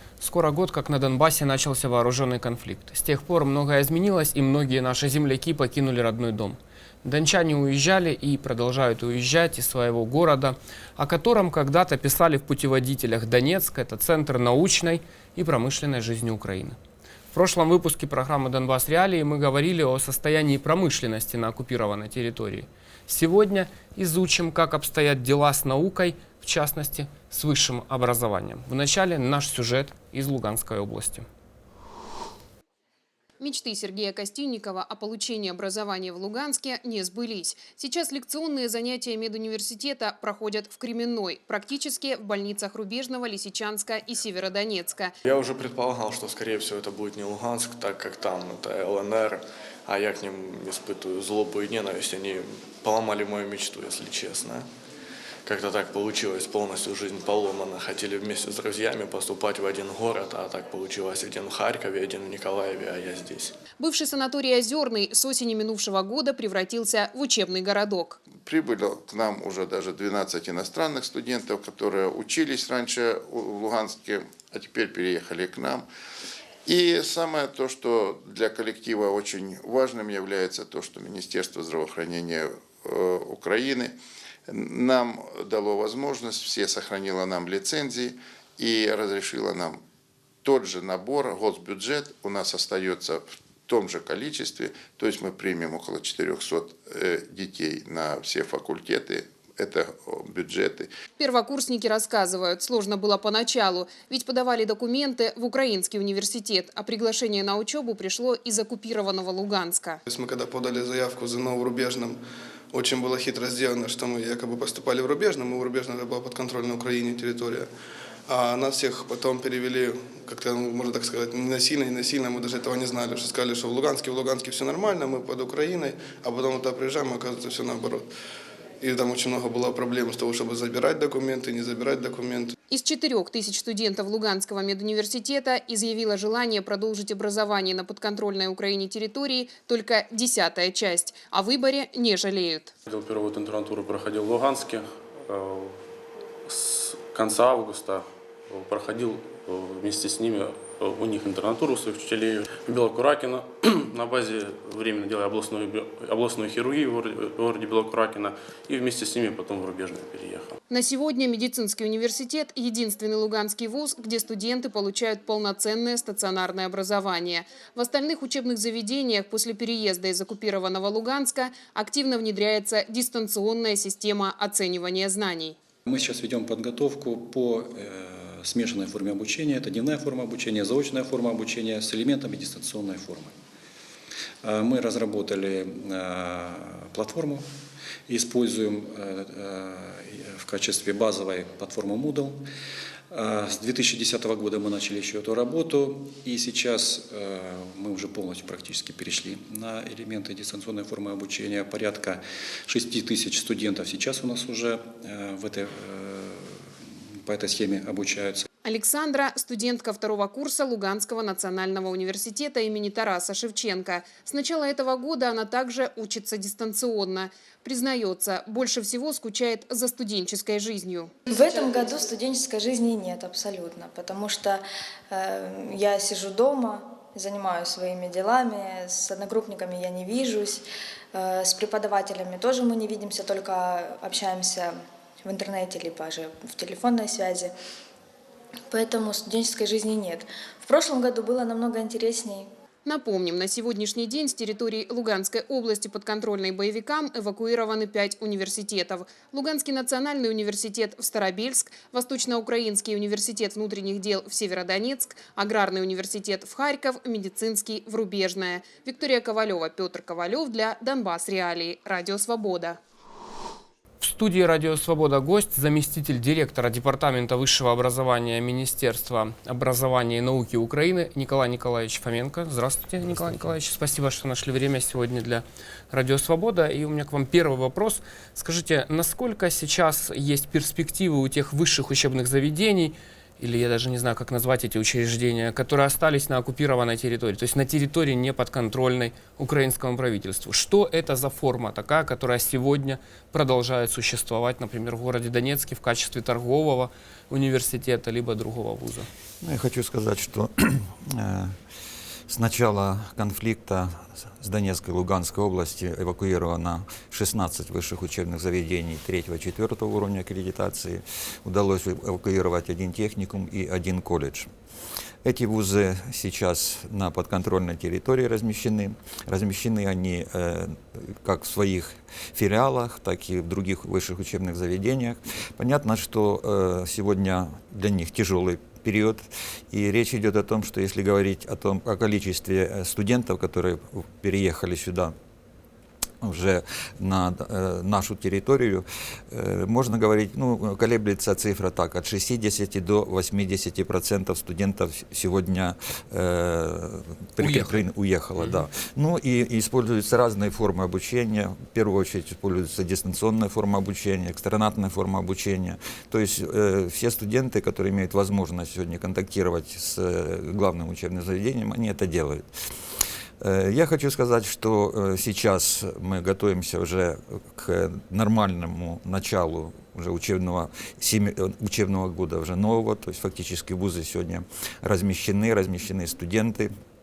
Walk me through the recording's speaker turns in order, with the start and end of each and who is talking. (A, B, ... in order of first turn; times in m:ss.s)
0:00.2-0:16.8 A
0:17.3-0:31.2 A
0:33.4-0:45.1 B
0:45.2-0:54.6 C
0:55.4-1:03.5 C
1:03.8-1:08.2 B
1:08.4-1:15.8 D
1:16.6-1:23.9 D
1:24.5-1:29.8 D
1:30.4-1:40.9 D
1:41.2-1:50.0 B
1:50.1-1:52.2 E
1:52.7-1:57.7 E
1:58.3-2:08.1 E
2:08.8-2:12.5 E
2:12.7-2:22.7 B
2:22.9-2:25.8 F
2:26.4-2:40.6 F
2:40.7-2:55.6 B
2:55.8-3:03.3 G
3:04.4-3:07.5 G
3:08.1-3:12.5 G
3:13.1-3:26.6 G
3:27.2-3:28.4 G
3:28.6-3:41.1 B
3:41.3-3:57.5 H
3:58.7-4:02.5 H
4:02.8-4:22.8 B
4:24.0-4:59.1 A
4:59.4-5:01.5 I
5:02.3-5:14.5 I
5:15.2-5:35.1 I
5:36.2-6:02.4 I
5:47.4-5:47.8 A
6:03.4-6:16.7 I